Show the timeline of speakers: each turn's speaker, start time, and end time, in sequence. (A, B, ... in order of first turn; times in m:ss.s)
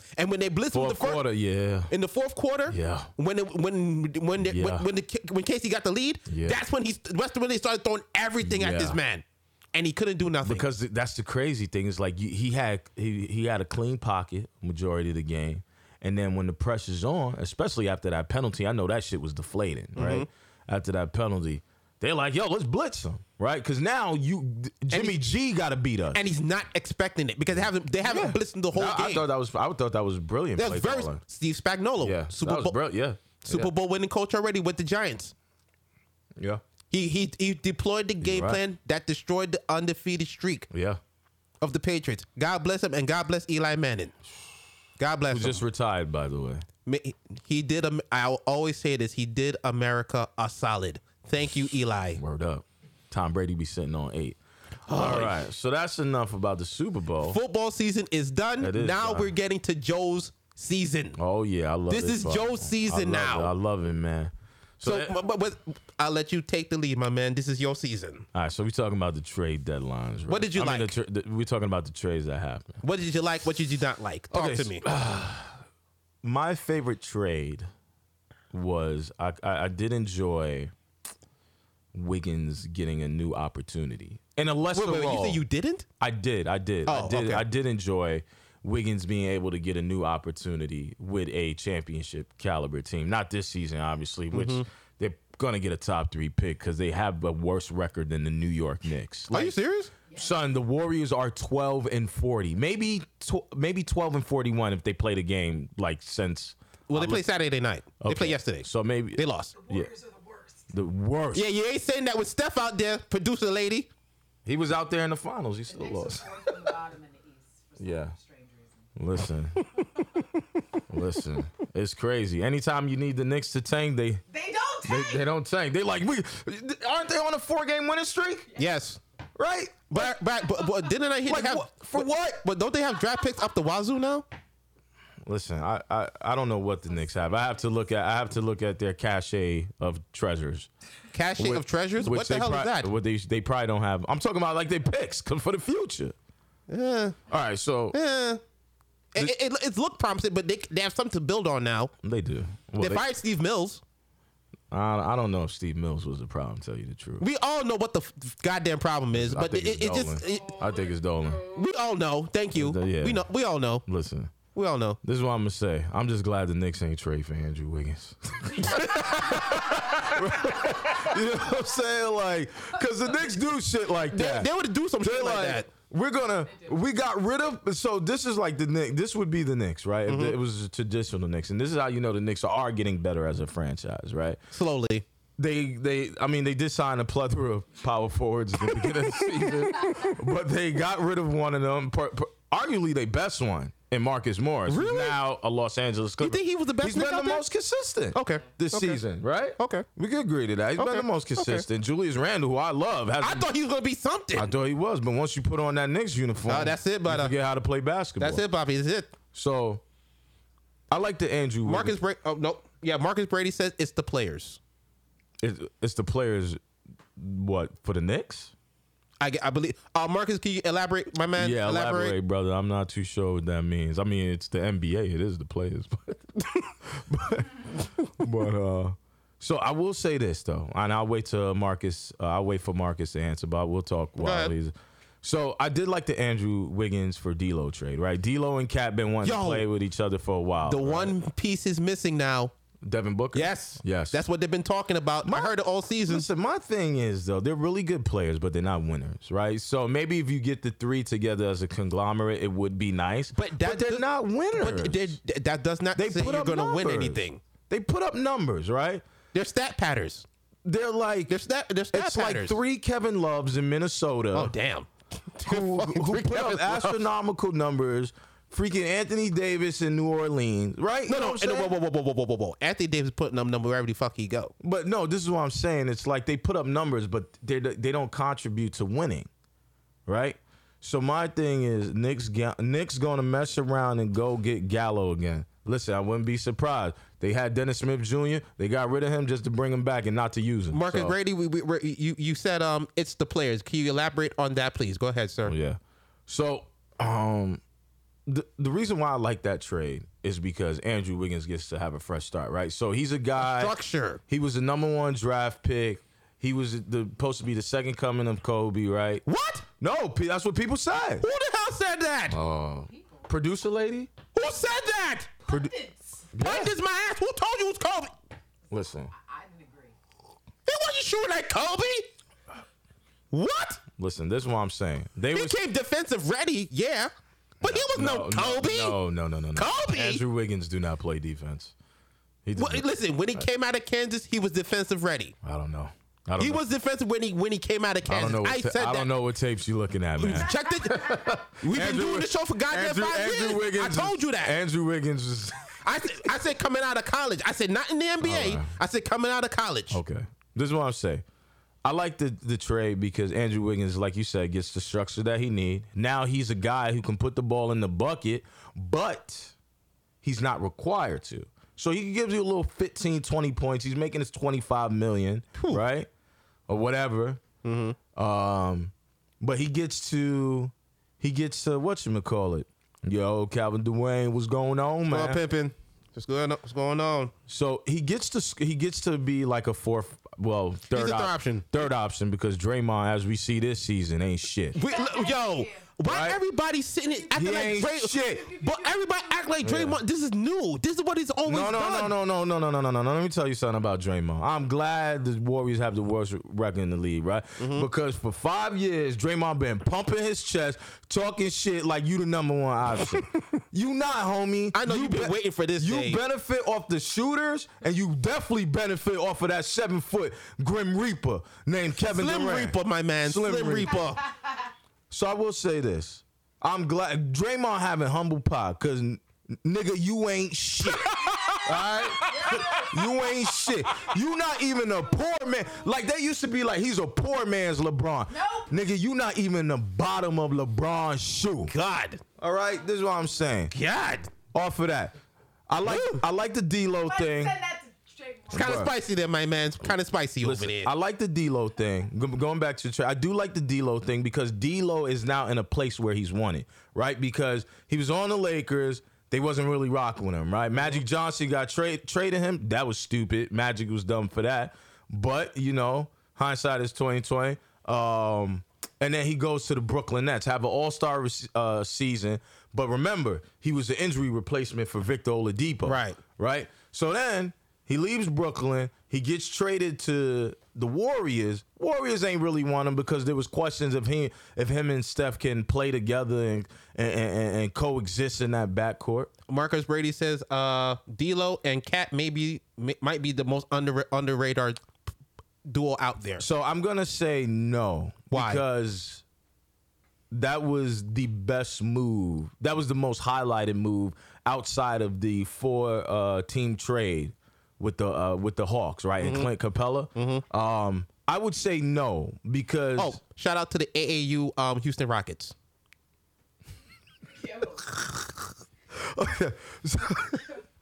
0:00.2-0:01.2 A
0:00.7-0:01.9 B
0:01.9-0:10.7 A
0:02.7-0:03.1 B
0:04.4-0:04.9 B
0:06.3-0:06.6 B
0:08.4-0:09.0 B
0:10.4-0:26.3 B
0:20.0-0:20.3 A
0:24.9-0:25.2 A
0:26.1-0:29.3 A
0:28.0-0:31.2 B
0:30.6-0:32.8 A
0:32.0-0:33.7 B
0:33.4-0:35.3 A
0:36.9-0:40.7 A
0:38.2-0:38.6 B
0:40.7-0:41.0 B
0:41.6-0:44.2 A
0:45.0-0:45.6 A
0:45.3-0:46.6 B
0:46.9-0:52.2 A
0:52.2-0:57.4 B
0:54.9-0:55.4 A
0:57.2-1:01.2 A
0:58.6-0:59.3 B
1:01.2-1:05.1 B
1:01.9-1:03.5 A
1:04.8-1:08.3 A
1:08.3-1:12.8 B
1:10.3-1:10.9 A
1:12.8-1:14.9 A
1:14.3-1:15.6 B
1:16.2-1:17.7 B
1:18.5-1:20.7 B
1:21.9-1:25.4 B
1:24.7-1:25.9 A
1:26.0-1:39.6 B
1:26.9-1:27.4 A
1:34.3-1:34.7 A
1:39.3-1:39.9 A
1:40.1-1:47.2 B
1:46.9-1:49.6 A
1:48.0-1:49.9 B
1:49.6-1:50.6 C
1:50.7-1:51.4 B
1:51.3-1:53.9 A
1:54.5-1:56.5 B
1:55.7-1:58.9 C
1:57.8-1:58.2 B
1:59.0-1:59.6 B
2:00.9-2:04.2 B
2:04.3-2:05.2 C
2:04.8-2:08.5 B
2:08.6-2:09.0 A
2:09.4-2:10.2 B
2:09.9-2:14.3 A
2:11.3-2:12.4 B
2:15.2-2:20.7 B
2:21.1-2:22.9 A
2:21.4-2:26.2 B
2:26.7-2:27.2 A
2:27.3-2:28.0 B
2:27.9-2:28.4 A
2:29.1-2:31.9 A
2:32.0-2:33.0 B
2:32.8-2:33.8 A
2:34.7-2:37.3 B
2:37.2-2:40.6 A
2:39.1-2:41.4 B
2:41.4-2:43.8 A
2:42.6-2:43.3 B
2:43.8-2:44.3 B
2:44.5-2:45.0 A
2:45.0-3:04.4 B
2:48.6-2:50.2 A
2:54.1-2:55.7 A
3:00.1-3:00.4 A
3:04.5-3:05.0 A
3:05.4-3:23.5 B
3:09.2-3:10.1 A
3:14.7-3:15.2 A
3:16.2-3:17.4 A
3:18.1-3:19.0 A
3:19.6-3:19.9 A
3:20.8-3:21.6 A
3:23.2-3:24.5 A
3:24.3-3:28.4 B
3:26.5-3:27.4 A
3:28.2-3:29.1 A
3:29.3-3:29.8 B
3:30.9-3:32.0 B
3:31.6-3:34.6 A
3:35.4-3:36.6 B
3:37.2-3:38.5 B
3:39.2-3:42.2 A
3:41.4-4:01.2 B
3:54.2-3:54.5 A
3:59.2-3:59.7 A
4:00.6-4:02.5 A
4:02.8-4:04.2 B
4:03.3-4:06.3 A
4:05.2-4:05.6 B
4:06.1-4:15.2 B
4:13.4-4:17.4 A
4:16.0-4:19.0 B
4:19.3-4:20.3 A
4:20.6-4:21.4 B
4:21.3-4:22.6 A
4:21.9-4:24.5 B
4:24.3-4:27.0 A
4:25.4-4:31.7 B
4:31.1-4:34.5 A
4:34.6-4:39.3 B
4:40.1-4:51.2 B
4:50.7-4:55.5 A
4:55.5-4:57.6 B
4:58.3-5:03.7 B
5:03.4-5:04.2 A
5:04.3-5:09.2 B
5:09.2-5:09.7 A
5:09.8-5:11.3 B
5:11.2-5:12.4 A
5:12.3-5:14.1 B
5:12.9-5:13.3 C
5:14.3-5:15.3 A
5:15.4-5:16.3 C
5:16.3-5:16.7 B
5:16.4-5:18.2 A
5:18.7-5:19.1 B
5:19.1-5:20.0 C
5:20.7-5:22.1 A
5:23.3-5:23.8 A
5:24.0-5:25.6 B
5:25.3-5:29.0 A
5:27.6-5:31.7 B
5:29.6-5:30.2 A
5:32.4-5:33.4 B
5:32.6-5:35.4 A
5:35.4-5:36.6 B
5:36.4-5:39.1 A
5:38.0-5:46.3 B
5:40.2-5:44.6 A
5:45.8-5:50.0 A
5:48.2-5:48.7 B
5:49.9-5:51.2 B
5:51.8-5:59.5 B
6:00.2-6:06.1 B
6:05.6-6:05.8 A
6:06.7-6:07.4 B
6:07.6-6:08.0 A
6:08.2-6:15.4 B
6:15.1-6:17.3 A
6:17.5-6:24.8 B
6:20.9-6:21.8 A
6:24.8-6:32.1 A
6:24.8-6:25.9 C
6:26.0-6:26.4 B
6:27.1-6:29.3 C
6:27.3-6:28.5 B
6:29.6-6:30.0 B
6:31.5-6:54.0 B
6:37.6-6:37.9 A
6:44.7-6:46.2 A
6:52.0-6:54.2 A
6:55.1-7:11.7 B
7:00.8-7:02.9 A
7:01.5-7:03.3 C
7:08.3-7:08.7 C
7:11.7-7:12.2 A
7:12.4-7:13.7 B
7:13.7-7:14.3 A
7:14.5-7:15.2 B
7:15.7-7:17.6 B
7:15.8-7:16.2 A
7:17.0-7:18.9 C
7:18.5-7:18.9 B
7:18.5-7:20.9 A
7:20.4-7:59.3 B
7:45.8-7:46.2 A
7:59.5-8:04.8 A
8:05.7-8:06.5 A
8:06.4-8:09.2 B
8:08.3-8:08.6 A
8:10.3-8:23.2 B
8:19.2-8:19.5 A
8:20.1-8:20.4 A
8:23.0-8:25.6 A
8:27.4-8:27.9 C
8:28.9-8:30.6 B